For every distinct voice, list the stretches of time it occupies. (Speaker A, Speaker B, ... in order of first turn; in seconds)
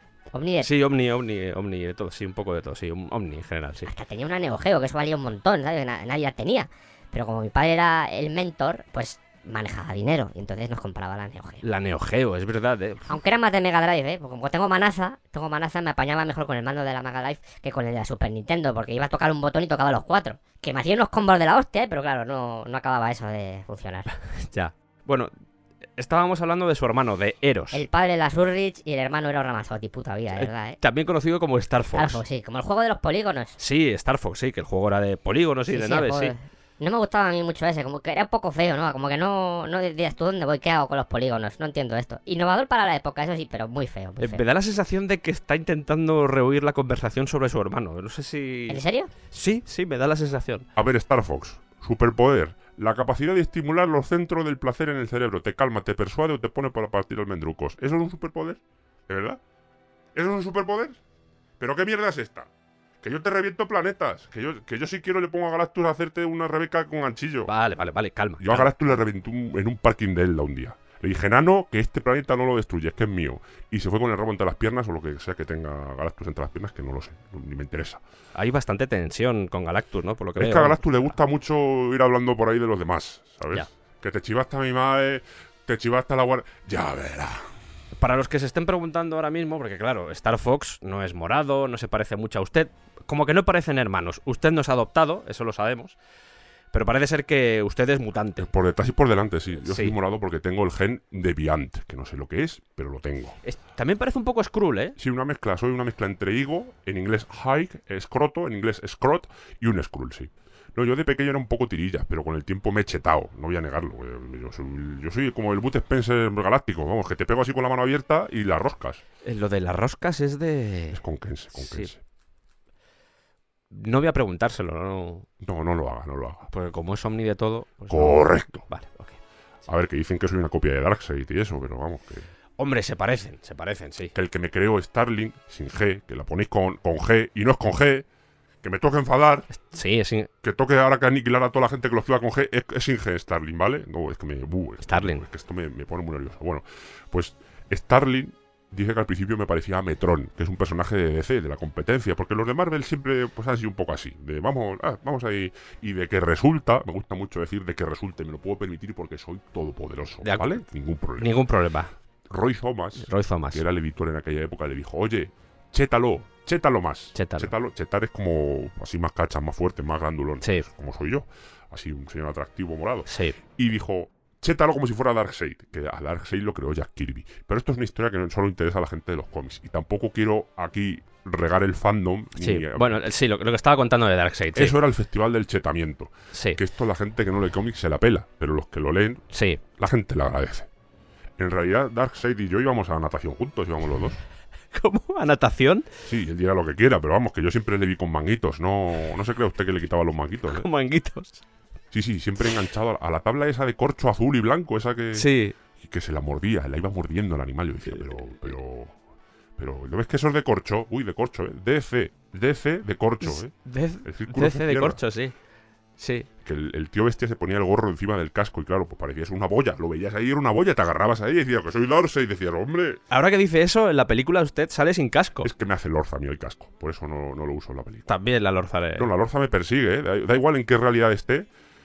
Speaker A: 0.3-0.7, 3.9-11.6, 13.1-24.1, 27.7-30.8, 31.9-33.6, 35.7-44.4, 48.7-49.1
Speaker B: 0.6-3.9, 11.6-13.2, 24.3-25.3, 26.0-27.8, 30.3-32.2, 33.6-36.4, 44.2-50.7, 67.5-68.7, 78.3-81.0, 88.0-96.0, 96.7-98.5, 99.6-100.0, 103.4-105.0, 119.2-121.0, 121.5-121.9, 123.7-125.3, 126.5-129.2, 132.6-134.1, 139.6-140.3, 144.8-145.2, 160.2-160.6, 161.2-161.9, 163.0-163.6, 167.2-167.5, 173.1-173.4, 182.4-184.8, 186.3-186.6, 189.3-189.6, 194.7-195.9, 200.5-201.4, 205.2-205.6, 207.9-208.5, 213.2-215.3, 216.0-216.3, 223.1-225.5, 228.1-229.1
Speaker C: 50.8-59.4, 60.1-61.0, 61.6-62.5, 63.0-67.5, 68.4-78.0, 80.4-87.5, 98.4-103.4, 105.0-119.0, 120.9-122.0, 125.4-126.5, 127.9-128.7, 129.7-132.3, 134.1-138.1, 138.6-139.6, 140.4-161.4, 162.3-183.0, 184.6-189.2, 189.8-190.7, 191.4-194.2, 196.1-200.7, 201.9-208.9, 209.6-215.0, 216.4-223.0, 225.4-228.1, 229.0-231.5